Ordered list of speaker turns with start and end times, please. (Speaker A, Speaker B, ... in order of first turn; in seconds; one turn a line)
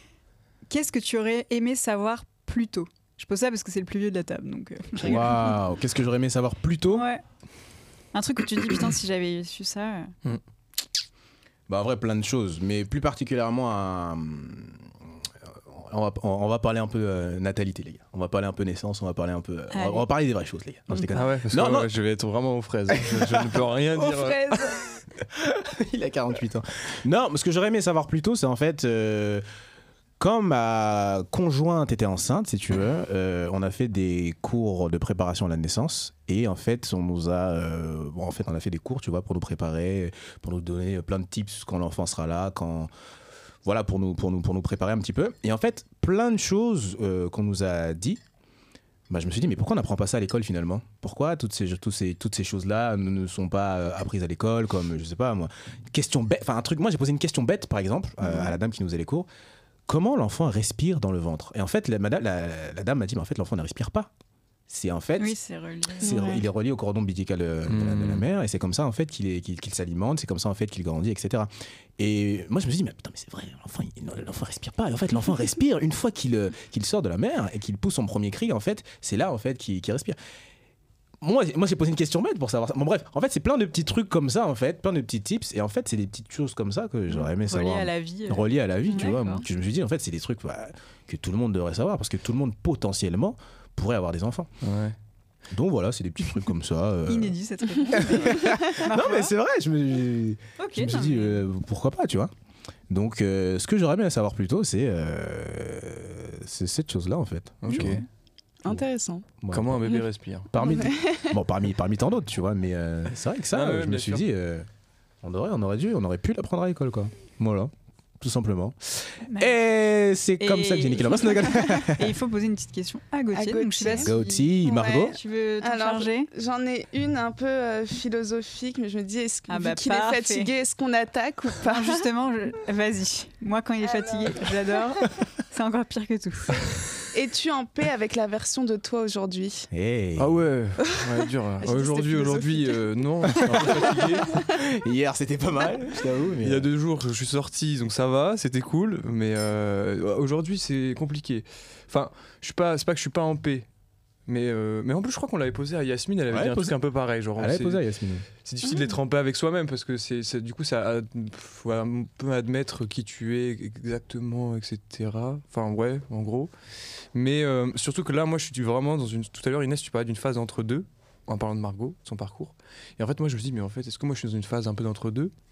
Speaker A: 0.7-5.6
Speaker B: 5.0-7.1
Speaker A: 6.9-7.2
Speaker A: 8.1-10.1
Speaker B: 11.7-14.9
Speaker B: 15.5-21.9
Speaker A: 19.7-20.1
Speaker C: 21.1-24.8
Speaker B: 22.9-23.5
Speaker D: 24.0-24.8
Speaker B: 25.3-29.4
Speaker B: 30.2-42.9
Speaker B: 43.6-48.2
Speaker B: 49.1-59.3
Speaker B: 59.9-64.1
Speaker B: 64.7-65.3
Speaker A: 65.2-66.2
Speaker B: 66.0-80.2
Speaker D: 66.0-66.4
Speaker C: 67.7-68.2
Speaker B: 81.2-94.5
Speaker A: 87.1-89.4
Speaker C: 94.6-95.0
Speaker B: 95.5-97.3
Speaker A: 97.0-99.3
Speaker B: 97.9-102.3
Speaker A: 100.6-101.4
Speaker B: 102.9-108.0
Speaker C: 107.6-108.0
Speaker D: 108.6-109.3
Speaker B: 109.4-109.9
Speaker C: 109.5-110.5
Speaker B: 110.5-114.7
Speaker D: 110.6-111.4
Speaker C: 113.5-114.2
Speaker B: 115.2-122.1
Speaker A: 119.2-119.5
Speaker A: 120.4-126.3
Speaker D: 123.3-132.1
Speaker B: 123.9-125.2
Speaker A: 129.5-130.5
Speaker A: 131.6-136.6
Speaker D: 133.9-134.5
Speaker D: 137.1-139.7
Speaker B: 139.7-140.3
Speaker C: 140.2-144.4
Speaker D: 140.9-144.6
Speaker B: 143.3-146.7
Speaker C: 146.4-153.7
Speaker C: 154.3-157.8
Speaker B: 156.3-156.8
Speaker B: 157.4-158.2
Speaker C: 158.4-166.5
Speaker C: 167.1-175.3